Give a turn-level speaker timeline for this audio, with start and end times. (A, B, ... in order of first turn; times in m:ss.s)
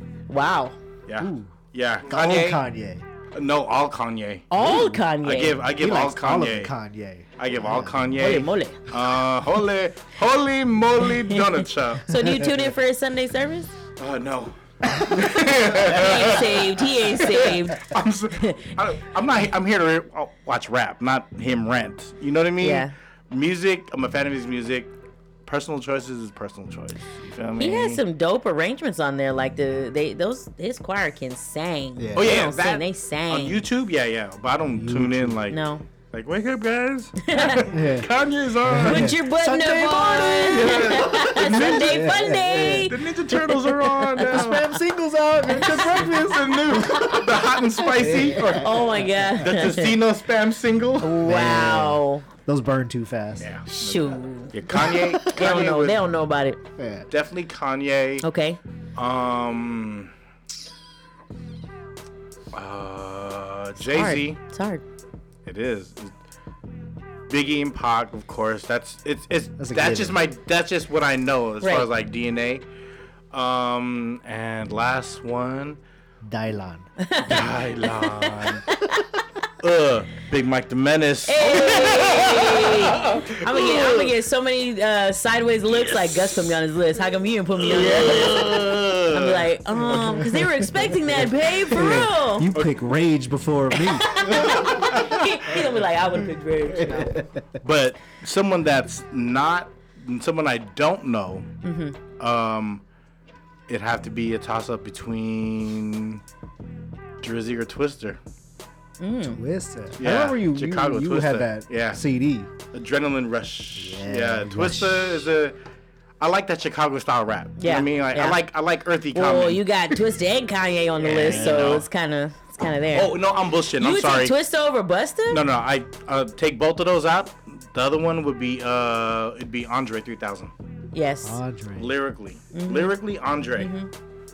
0:00.3-0:00.8 A
0:01.1-0:02.6 B
0:01.2-0:03.0 C
0:03.4-0:06.7 B
0:04.5-0:05.6 A
0:04.6-0:05.0 C
0:05.8-0:08.2 C
0:07.4-0:12.1 B
0:08.2-0:08.8 A
0:12.0-0:13.8 A
0:14.0-0:24.9 B
0:15.6-0:18.7 A
0:22.6-0:22.9 A
0:25.5-0:28.0 B
0:27.6-0:33.6 A
0:32.0-0:32.3 C
0:32.2-0:39.1 B
0:34.7-0:35.4 C
0:35.5-0:35.8 A
0:37.2-0:37.7 A
0:37.7-0:38.1 C
0:38.7-0:42.9 C
0:38.8-0:44.6 A
0:40.4-0:42.2 B
0:42.8-0:44.7 B
0:44.3-0:47.2 C
0:45.5-0:51.2 B
0:48.0-0:48.8 C
0:48.6-0:50.0 A
0:51.0-0:52.3 A
0:51.1-0:53.5 C
0:53.4-0:56.0 B
0:53.7-0:56.6 A
0:54.8-0:55.2 C
0:56.8-0:57.1 C
0:57.1-0:58.2 B
0:58.2-0:58.6 A
0:59.0-1:00.1 B
1:02.5-1:04.4 B
1:03.8-1:04.8 A
1:05.5-1:06.1 B
1:07.3-1:12.6 B
1:09.6-1:10.2 C
1:11.6-1:11.9 A
1:13.3-1:15.8 B
1:16.2-1:16.9 C
1:17.0-1:19.0 A
1:17.2-1:18.6 B
1:19.6-1:24.2 B
1:21.3-1:32.5 A
1:25.7-1:26.5 B
1:27.6-1:29.5 B
1:29.8-1:34.5 C
1:32.5-1:32.8 B
1:33.8-1:37.2 A
1:34.2-1:35.4 B
1:36.8-1:37.4 C
1:37.6-1:41.5 B
1:41.6-1:42.0 A
1:42.2-1:42.8 B
1:43.7-1:46.2 B
1:47.2-1:48.2 B
1:49.0-1:49.4 A
1:49.3-1:52.5 C
1:50.0-1:52.0 B
1:52.7-1:55.6 B
1:53.8-1:55.2 C
1:56.2-1:59.6 B
1:57.6-1:58.4 A
1:59.1-2:03.2 A
2:01.0-2:01.9 B
2:01.2-2:01.7 C
2:02.9-2:04.4 B
2:03.8-2:05.4 A
2:05.3-2:10.5 B
2:10.9-2:11.4 A
2:11.2-2:11.9 C
2:11.8-2:13.7 B
2:12.5-2:13.0 A
2:13.6-2:13.9 A